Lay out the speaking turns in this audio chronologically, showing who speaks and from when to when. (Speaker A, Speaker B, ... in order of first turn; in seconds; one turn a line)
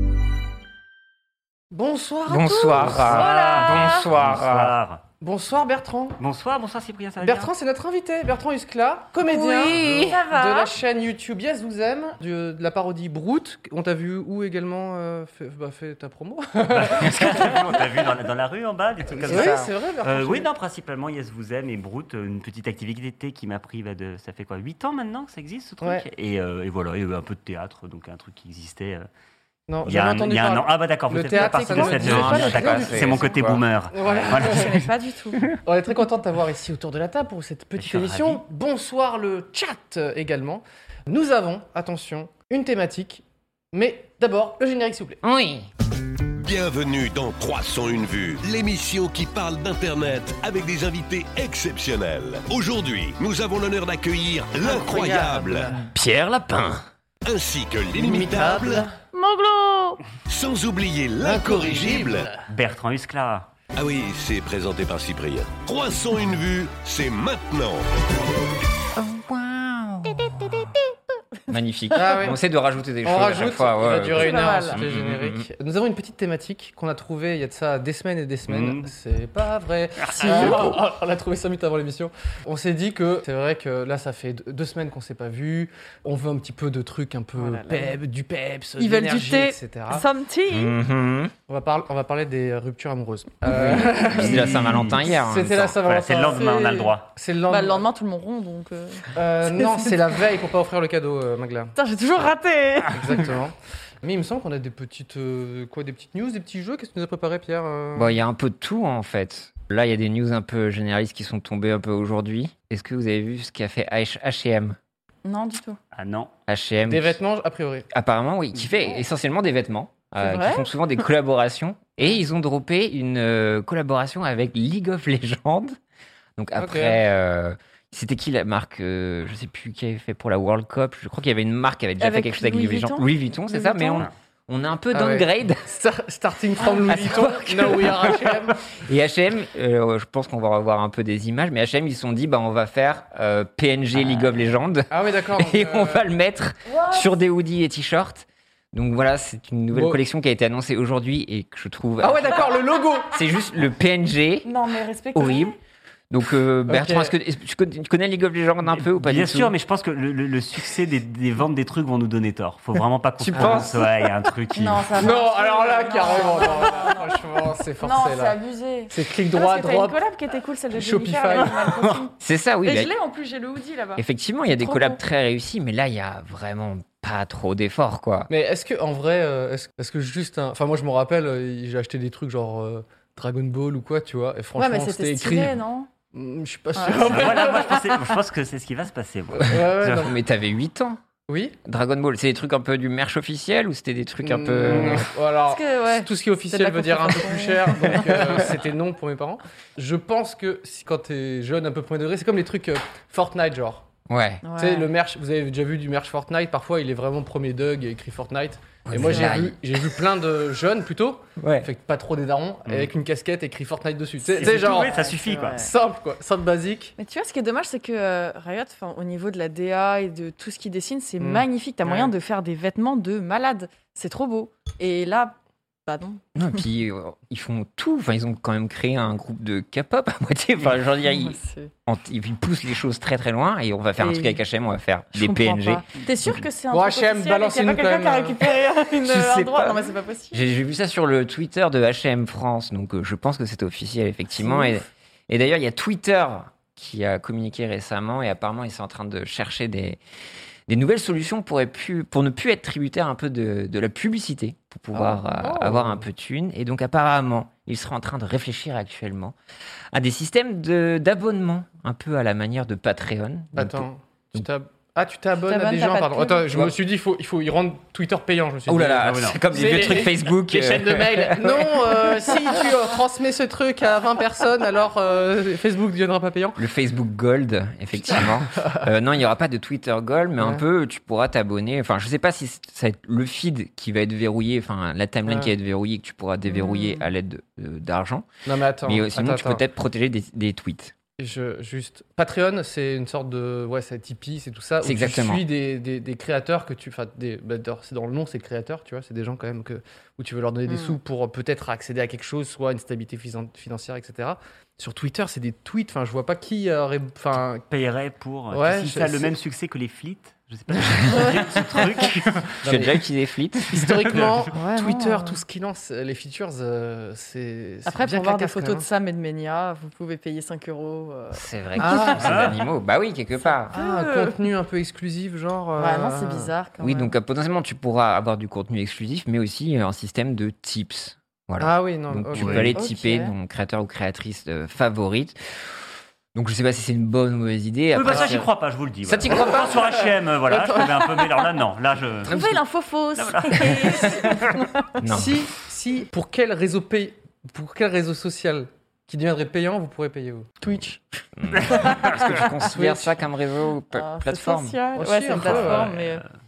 Speaker A: 1.7-3.7
Speaker B: 2.3-4.8
Speaker C: 2.8-5.0
Speaker D: 3.0-4.0
Speaker A: 5.2-6.2
Speaker C: 6.2-7.5
Speaker A: 7.2-17.8
Speaker D: 9.2-10.8
Speaker B: 9.6-10.2
Speaker C: 16.7-29.1
Speaker A: 19.2-20.5
Speaker B: 19.2-19.7
Speaker A: 29.7-33.0
Speaker C: 29.8-34.9
Speaker D: 31.3-33.4
Speaker B: 31.9-33.6
Speaker A: 33.9-34.8
Speaker D: 34.4-35.5
Speaker A: 35.5-45.2
Speaker C: 37.8-38.4
Speaker B: 45.2-45.7
Speaker E: 46.4-55.8
Speaker A: 54.6-55.9
Speaker B: 55.9-56.9
Speaker E: 57.2-58.9
Speaker A: 57.9-58.9
Speaker D: 59.1-60.0
Speaker E: 60.3-62.3
Speaker A: 61.2-62.3
Speaker C: 62.5-63.5
Speaker E: 63.7-67.8
Speaker B: 68.9-70.8
Speaker B: 71.5-75.5
Speaker A: 71.9-72.4
Speaker A: 73.0-90.1
Speaker D: 74.1-74.8
Speaker C: 78.5-78.9
Speaker C: 80.0-80.7
Speaker D: 80.2-80.8
Speaker D: 87.3-88.0
Speaker D: 88.8-90.8
Speaker B: 90.5-91.3
Speaker A: 91.5-96.5
Speaker B: 93.5-95.8
Speaker C: 93.9-95.1
Speaker C: 95.8-97.1
Speaker D: 96.3-97.0
Speaker A: 97.2-97.9
Speaker D: 97.5-99.9
Speaker A: 99.1-101.8
Speaker D: 101.8-103.2
Speaker A: 102.9-108.2
Speaker B: 107.9-114.8
Speaker D: 115.2-115.8
Speaker C: 115.9-116.3
Speaker B: 116.5-117.2
Speaker A: 116.8-117.9
Speaker B: 117.9-125.8
Speaker D: 120.2-120.7
Speaker B: 126.4-135.7
Speaker A: 126.6-127.0
Speaker D: 132.0-134.1
Speaker A: 134.9-138.7
Speaker B: 136.9-154.5
Speaker A: 144.9-146.1
Speaker D: 146.7-147.1
Speaker A: 149.7-150.0
Speaker A: 152.0-153.1
Speaker D: 154.4-155.6
Speaker B: 155.1-155.6
Speaker B: 156.1-159.5
Speaker A: 156.7-157.1
Speaker C: 158.8-164.9
Speaker B: 163.2-163.8
Speaker A: 163.3-163.7
Speaker D: 164.5-167.2
Speaker A: 165.0-168.4
Speaker D: 167.8-175.0
Speaker A: 168.9-170.0
Speaker A: 170.7-171.7
Speaker B: 172.2-172.9
Speaker B: 174.0-178.3
Speaker A: 178.3-185.6
Speaker D: 184.6-185.9
Speaker A: 186.1-188.0
Speaker D: 186.8-187.7
Speaker C: 187.1-190.1
Speaker A: 189.4-190.2
Speaker B: 189.5-191.0
Speaker A: 191.3-191.6
Speaker B: 191.7-195.1
Speaker A: 194.2-203.9
Speaker C: 194.6-195.0
Speaker D: 195.4-198.0
Speaker B: 198.1-198.4
Speaker B: 204.1-204.4
Speaker D: 204.4-204.9
Speaker A: 204.6-216.9
Speaker B: 208.9-209.6
Speaker D: 209.0-209.3
Speaker B: 211.4-211.7
Speaker C: 214.3-215.7
Speaker D: 214.4-215.7
Speaker D: 217.0-226.6
Speaker A: 221.2-222.1
Speaker B: 226.3-236.5
Speaker D: 231.0-231.7
Speaker D: 234.0-234.4
Speaker D: 235.1-240.5
Speaker A: 236.7-238.4
Speaker B: 239.1-250.0
Speaker D: 244.4-244.8
Speaker B: 250.7-259.4
Speaker A: 254.9-256.1
Speaker B: 259.9-264.4
Speaker A: 263.5-276.6
Speaker D: 265.4-266.5
Speaker B: 268.7-272.8
Speaker C: 269.0-269.8
Speaker B: 276.6-288.3
Speaker A: 278.0-278.9
Speaker A: 280.4-280.6
Speaker A: 285.3-285.5
Speaker D: 286.6-287.0
Speaker A: 288.4-289.6
Speaker B: 288.8-290.9
Speaker A: 291.2-307.6
Speaker B: 294.8-295.4
Speaker D: 300.7-301.0
Speaker C: 307.7-312.6
Speaker A: 308.5-309.3
Speaker D: 311.1-311.6
Speaker A: 312.6-313.0
Speaker B: 312.6-313.9
Speaker A: 313.7-318.9
Speaker C: 313.7-314.5
Speaker D: 314.5-315.4
Speaker D: 317.9-322.2
Speaker B: 321.3-323.8
Speaker A: 321.8-322.4
Speaker C: 322.2-322.6
Speaker D: 323.7-324.4
Speaker A: 323.7-326.5
Speaker D: 325.8-327.1
Speaker B: 326.8-335.4
Speaker A: 331.6-332.8
Speaker C: 332.4-332.7
Speaker D: 332.7-333.4
Speaker B: 336.3-338.5
Speaker C: 337.9-342.4
Speaker B: 339.1-340.0
Speaker D: 340.8-341.4
Speaker D: 342.2-345.0
Speaker B: 342.3-342.6
Speaker C: 343.2-344.6
Speaker B: 343.6-344.3
Speaker B: 345.0-345.4
Speaker A: 345.1-350.9
Speaker B: 351.4-354.8
Speaker C: 351.6-352.2
Speaker D: 351.7-352.6
Speaker A: 352.7-353.2
Speaker D: 353.9-356.2
Speaker A: 354.9-355.9
Speaker C: 355.4-356.2